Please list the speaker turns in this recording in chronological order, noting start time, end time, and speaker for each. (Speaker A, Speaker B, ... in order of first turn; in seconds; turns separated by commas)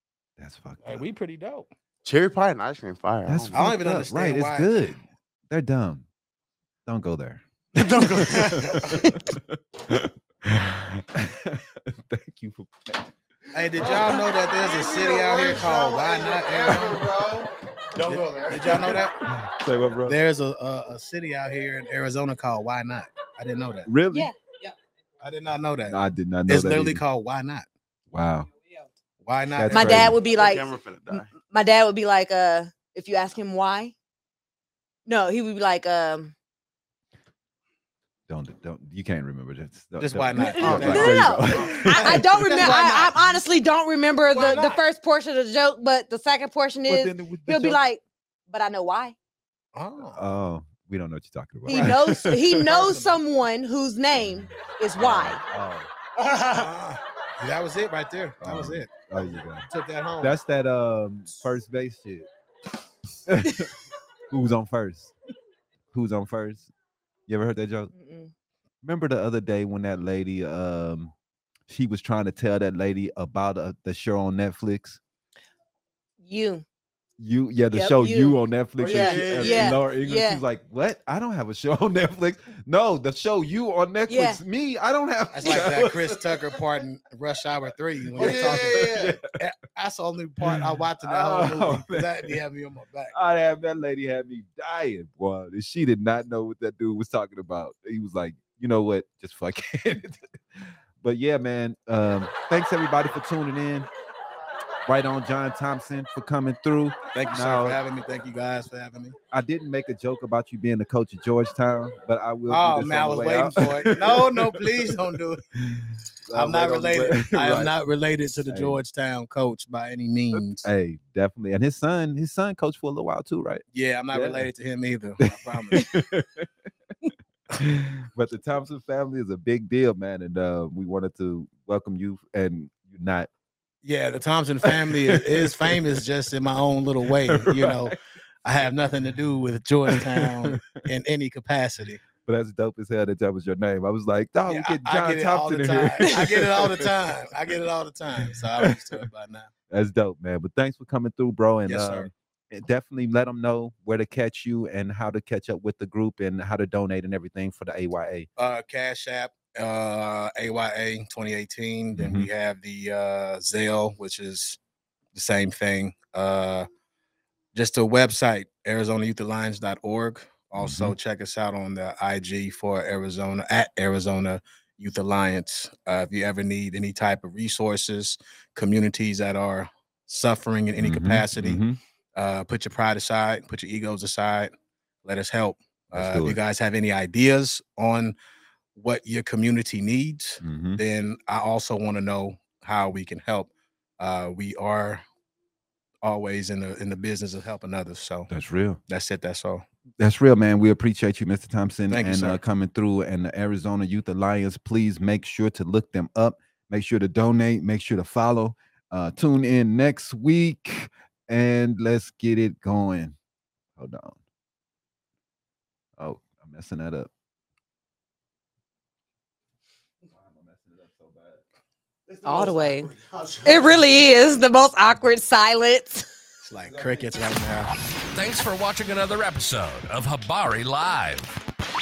Speaker A: 0.4-1.0, Speaker B: 0.8-1.7, Speaker C: 2.0-3.6, Speaker A: 3.2-6.0, Speaker B: 3.5-4.9, Speaker A: 6.8-13.1, Speaker C: 7.7-9.2, Speaker B: 13.5-17.1, Speaker C: 13.8-18.9, Speaker A: 13.8-14.3, Speaker A: 16.7-16.9, Speaker A: 18.0-20.2, Speaker B: 18.5-19.2, Speaker B: 20.1-23.9, Speaker A: 23.9-24.3, Speaker D: 24.1-24.5, Speaker B: 25.2-27.6, Speaker A: 25.9-27.0, Speaker A: 28.1-28.5, Speaker B: 29.2-30.2, Speaker A: 29.5-30.2, Speaker D: 29.7-30.7, Speaker C: 30.2-31.3, Speaker D: 31.4-33.9, Speaker D: 35.0-36.3, Speaker A: 38.3-42.3, Speaker B: 40.0-43.4, Speaker D: 40.4-49.1, Speaker B: 44.3-44.8, Speaker A: 46.9-47.8, Speaker B: 49.7-50.2, Speaker A: 50.1-52.6, Speaker D: 51.6-55.4, Speaker B: 51.7-52.0, Speaker B: 52.6-53.2, Speaker A: 55.0-55.9, Speaker B: 56.3-60.4, Speaker A: 58.4-59.7, Speaker A: 60.2-62.3, Speaker A: 63.2-63.7, Speaker A: 64.3-65.1, Speaker A: 65.9-66.7, Speaker A: 67.3-67.9, Speaker D: 67.9-68.3, Speaker A: 68.8-71.1, Speaker A: 71.7-75.0, Speaker D: 76.2-76.6, Speaker A: 77.2-86.6, Speaker D: 77.7-80.4, Speaker C: 78.8-79.8, Speaker D: 84.1-84.4, Speaker B: 85.3-93.1, Speaker A: 88.0-89.2, Speaker C: 88.2-89.2, Speaker A: 90.4-92.4, Speaker A: 93.1-103.9, Speaker A: 104.8-107.8, Speaker B: 107.1-109.2, Speaker A: 109.3-117.7, Speaker B: 112.5-115.4, Speaker B: 116.3-120.7, Speaker A: 118.4-118.8, Speaker A: 120.3-124.5, Speaker B: 123.7-125.9, Speaker A: 125.2-126.5, Speaker A: 127.6-133.3, Speaker B: 133.8-142.0, Speaker A: 134.6-135.8, Speaker A: 137.3-137.9, Speaker A: 139.8-140.8, Speaker A: 142.2-146.9, Speaker B: 144.5-149.5, Speaker A: 148.2-149.0, Speaker A: 149.7-158.3, Speaker B: 151.7-152.1, Speaker B: 158.4-164.6, Speaker A: 161.9-162.3, Speaker B: 165.1-166.7, Speaker B: 167.5-181.6, Speaker A: 170.5-170.9, Speaker A: 180.8-181.8, Speaker B: 182.2-184.5, Speaker B: 185.0-188.1, Speaker A: 185.9-186.4, Speaker B: 188.7-195.0, Speaker A: 190.4-190.8, Speaker B: 196.0-198.3, Speaker A: 198.3-198.8, Speaker B: 198.9-199.6, Speaker A: 200.0-213.1, Speaker B: 201.9-202.4, Speaker A: 213.8-214.2, Speaker A: 216.0-217.1, Speaker A: 220.1-221.4, Speaker C: 222.1-223.8, Speaker D: 222.2-222.9, Speaker D: 223.4-226.0, Speaker B: 226.4-227.7, Speaker A: 226.7-227.1, Speaker E: 228.1-231.3